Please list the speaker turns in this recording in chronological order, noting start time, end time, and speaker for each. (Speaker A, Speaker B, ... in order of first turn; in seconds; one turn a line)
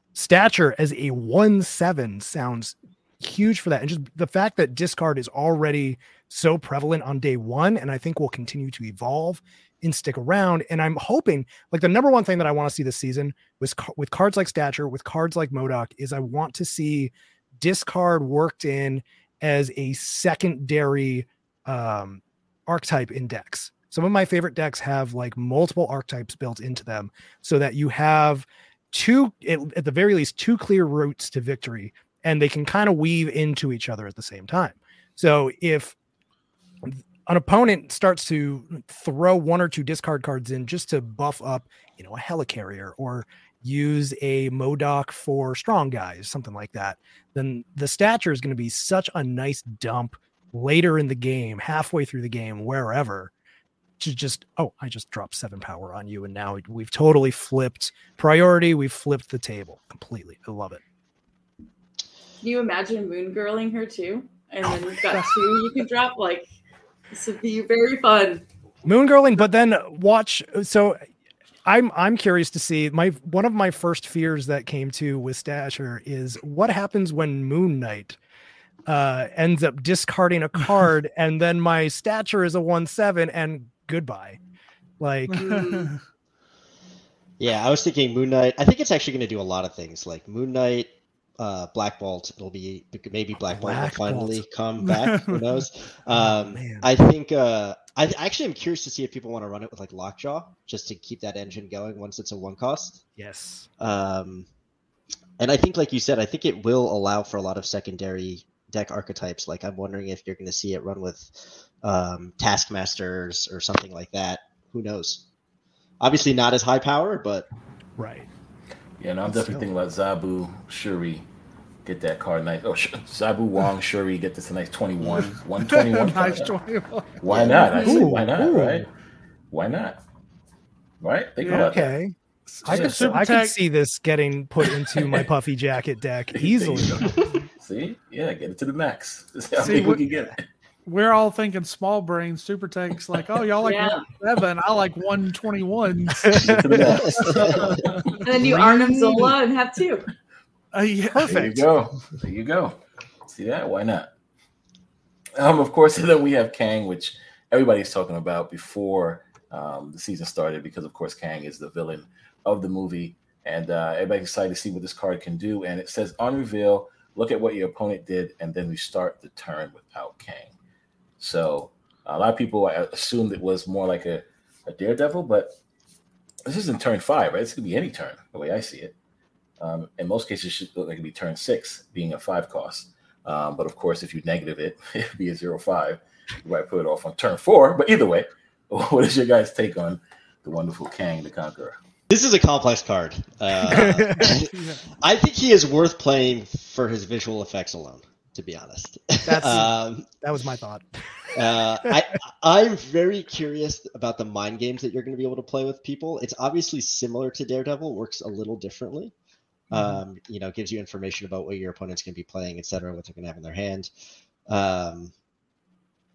Speaker A: 0.1-36.0
Speaker A: 36.8-53.3
Speaker A: 54.0-60.8
Speaker B: 62.4-66.5
Speaker B: 67.1-68.4
Speaker A: 68.8-71.0
Speaker A: 71.7-78.2
Speaker A: 78.9-84.4
Speaker A: 85.0-85.7
Speaker C: 85.3-86.0
Speaker B: 85.3-85.9
Speaker D: 87.4-103.0
Speaker A: 93.5-94.5
Speaker C: 94.8-95.5
Speaker A: 96.1-96.9
Speaker A: 103.2-103.7
Speaker D: 103.8-104.5
Speaker D: 105.4-115.2
Speaker D: 116.0-117.5
Speaker A: 118.0-118.3
Speaker E: 119.0-121.2
Speaker A: 119.3-119.7
Speaker E: 121.8-126.5
Speaker C: 125.2-128.0
Speaker E: 127.2-128.9
Speaker D: 127.3-127.7
Speaker A: 127.7-128.8
Speaker E: 129.5-130.0
Speaker E: 131.0-131.9
Speaker C: 131.4-131.8
Speaker A: 131.5-137.1
Speaker C: 132.5-133.6
Speaker E: 132.7-133.2
Speaker E: 136.3-140.4
Speaker C: 139.6-140.0
Speaker C: 140.8-149.3
Speaker B: 143.6-144.0
Speaker E: 146.3-148.5
Speaker D: 147.0-147.7
Speaker B: 148.2-150.1
Speaker C: 150.7-151.6
Speaker A: 151.1-151.6
Speaker E: 151.2-154.1
Speaker E: 155.4-170.5
Speaker E: 171.2-175.5
Speaker E: 176.4-178.9
Speaker E: 179.6-191.8
Speaker D: 192.1-200.1
Speaker A: 193.7-194.4
Speaker C: 194.2-194.8
Speaker A: 199.2-202.0
Speaker D: 201.3-209.1
Speaker D: 209.7-213.9
Speaker A: 209.7-210.0
Speaker D: 214.5-215.1